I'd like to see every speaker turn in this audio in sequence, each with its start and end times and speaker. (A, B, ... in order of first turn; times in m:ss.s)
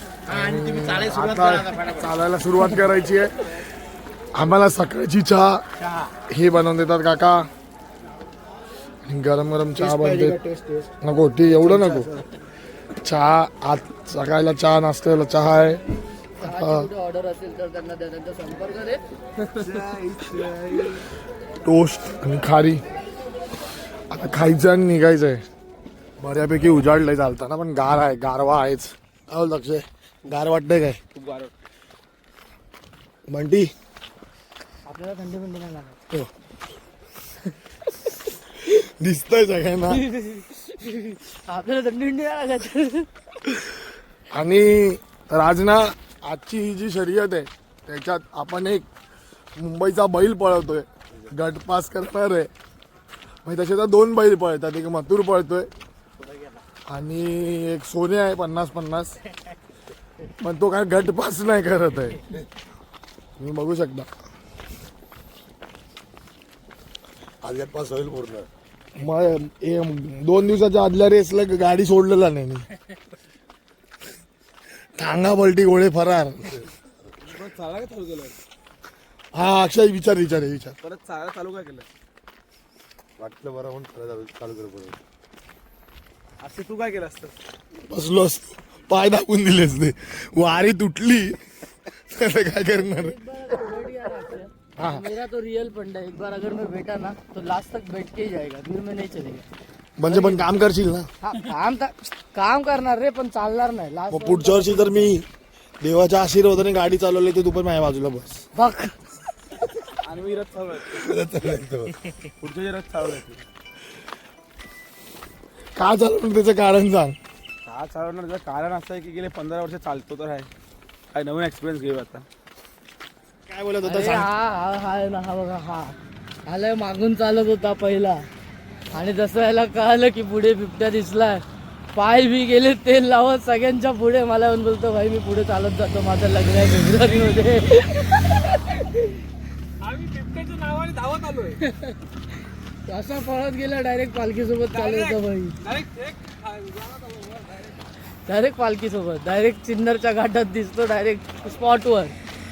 0:00.3-0:03.3 A
0:04.3-0:05.6 A
0:06.3-0:07.5 A
0:09.1-0:10.4 A
0:09.8-0:10.9 B
0:11.0-0:12.1 A
0:13.0-0:15.8 A
0:16.4-0:19.0 C
0:16.4-0:16.9 A
0:19.6-0:21.0 B
0:21.6-0:22.8 A
0:24.1-0:25.4 A
0:26.2-0:31.0 A
0:31.1-0:31.5 B
0:33.3-0:33.7 A
0:34.9-0:36.0 C
0:38.6-0:40.0 A
0:39.9-0:43.1 C
0:44.3-0:48.9 A
0:49.6-0:52.5 A
0:53.4-0:55.7 A
0:56.9-0:59.2 A
1:00.4-1:02.2 A
1:03.4-1:04.1 A
1:07.4-1:08.5 D
1:09.0-1:12.7 A
1:15.0-1:16.7 A
1:17.2-1:18.4 B
1:19.3-1:20.8 A
1:20.8-1:21.9 B
1:23.2-1:25.0 D
1:26.4-1:27.4 B
1:27.9-1:33.2 A
1:33.0-1:39.4 C
1:34.8-1:35.1 A
1:40.0-1:41.1 A
1:40.1-1:40.5 C
1:41.2-1:45.2 C
1:44.1-1:45.2 A
1:45.8-1:48.5 A
1:48.6-1:49.0 C
1:50.0-1:51.1 B
1:51.0-1:51.9 A
1:52.4-1:53.4 B
1:55.8-1:57.2 A
1:57.7-2:00.5 B
2:01.1-2:02.3 B
2:03.5-2:04.3 A
2:03.8-2:08.3 C
2:08.9-2:19.1 C
2:19.9-2:21.5 B
2:21.5-2:22.0 C
2:22.9-2:25.7 C
2:25.8-2:27.4 B
2:28.3-2:32.2 C